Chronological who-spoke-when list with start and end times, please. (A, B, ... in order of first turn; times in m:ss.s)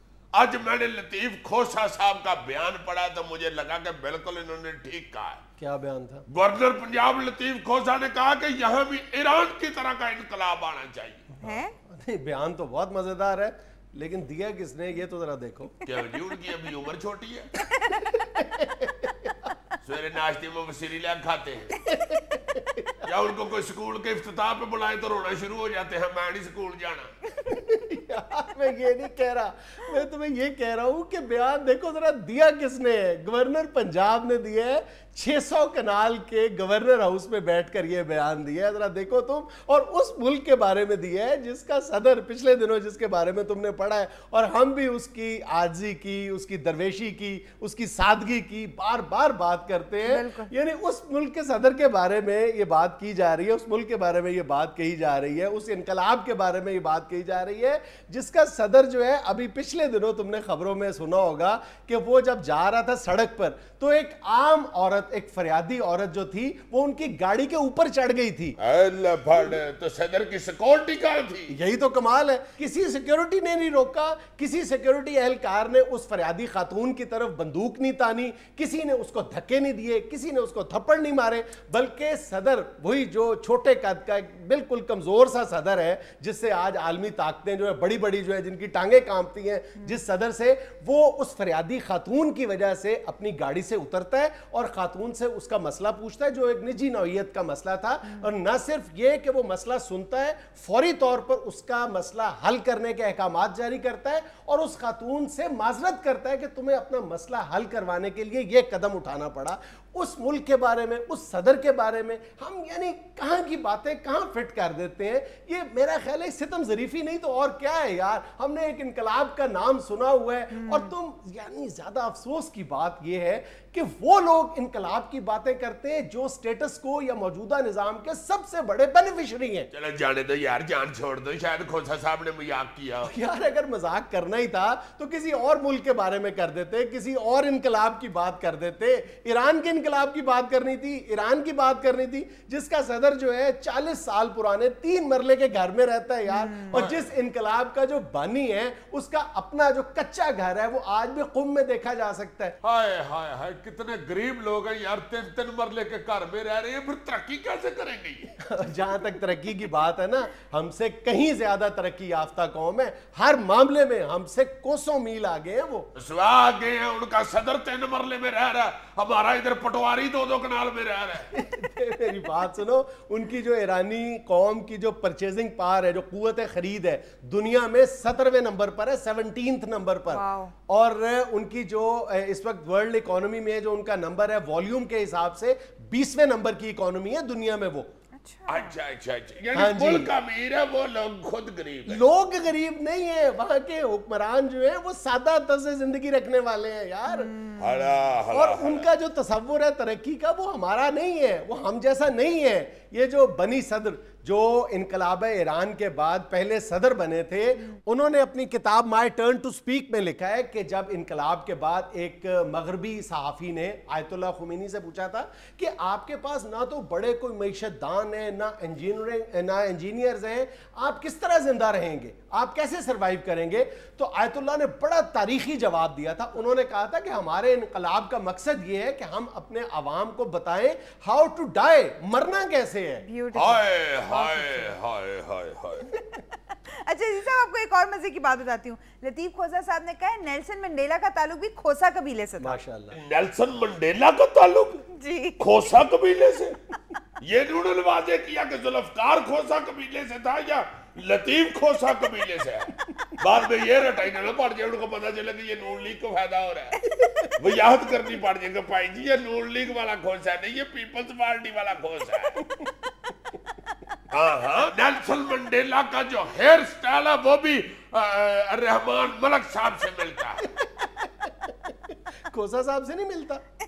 0:00.3-0:05.4 A
0:05.6-0:06.3 B
0:06.3-0:11.3 A
0:11.4-0:11.7 C
0:11.4-0:15.8 B
0:15.8-0:17.5 A
0:17.8-0:19.5 B
0:19.8-0:21.8 A
0:21.9-0:23.0 B
0:23.0-0:27.1 A
0:27.4-1:08.6 B
0:50.0-0:50.5 C
1:08.6-1:11.6 A
1:11.5-2:09.7 B
2:00.5-2:00.9 C
2:09.7-2:13.1 A
2:13.0-2:32.6 B
2:26.3-2:26.8 C
2:26.7-2:27.1 A
2:32.6-2:38.3 A
2:38.4-2:45.9 B
2:46.0-2:51.3 A
2:51.3-3:07.9 B
3:00.1-3:00.5 C
3:08.2-3:08.8 C
3:08.5-3:12.0 A
3:09.5-3:10.1 B
3:11.9-3:17.4 B
3:17.1-3:17.7 C
3:17.6-3:18.9 A
3:18.3-3:53.1 B
3:53.0-3:54.7 C
3:53.3-3:56.0 A
3:56.7-4:02.6 C
4:02.4-4:03.0 B
4:02.9-4:04.8 A
4:04.9-4:05.4 C
4:05.4-4:06.6 A
4:07.2-4:16.8 A
4:16.9-4:17.3 B
4:17.4-4:22.4 A
4:24.1-4:30.4 A
4:30.5-4:31.5 B
4:32.3-4:33.4 B